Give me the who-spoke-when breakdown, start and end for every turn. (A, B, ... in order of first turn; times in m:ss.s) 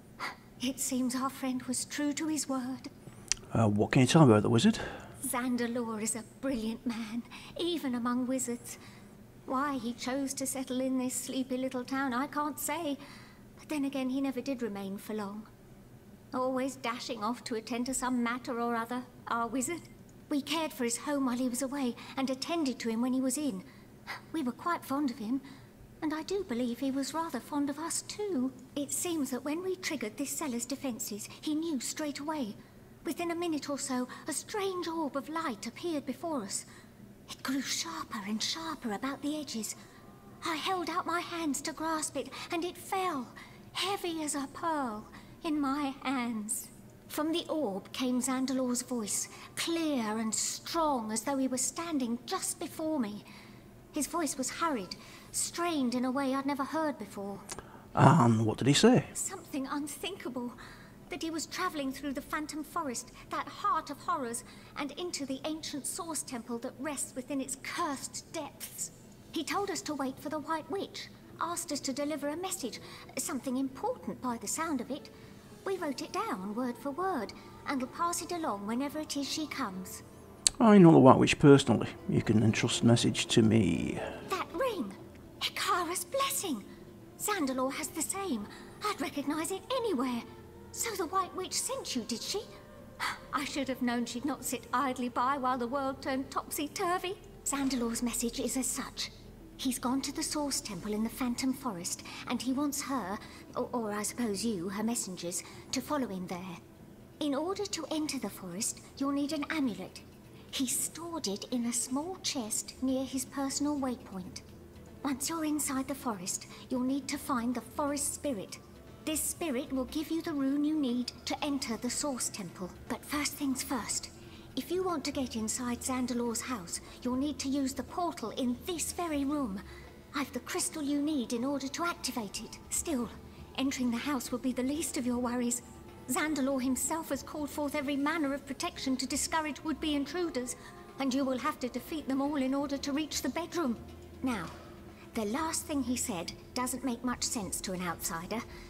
0:00.2-0:02.9 A
0:03.5-0:05.0 B
0:05.2-0:08.8 A
0:09.5-0:13.0 A
0:13.6-0:15.5 A
0:16.3-0:23.6 A
0:24.3-0:25.4 A
0:26.0-0:36.7 A
0:37.3-0:39.8 A
0:40.4-0:53.2 A
0:53.9-0:57.5 A
0:58.0-0:59.1 B
0:59.2-1:00.6 A
1:01.1-1:15.1 A
1:15.6-1:20.0 A
1:20.6-1:24.2 B
1:24.3-1:26.6 A
1:27.2-1:32.5 A
1:33.0-1:46.6 A
1:47.2-1:54.4 A
1:55.0-2:09.6 A
2:10.1-2:24.6 A
2:25.1-2:28.4 A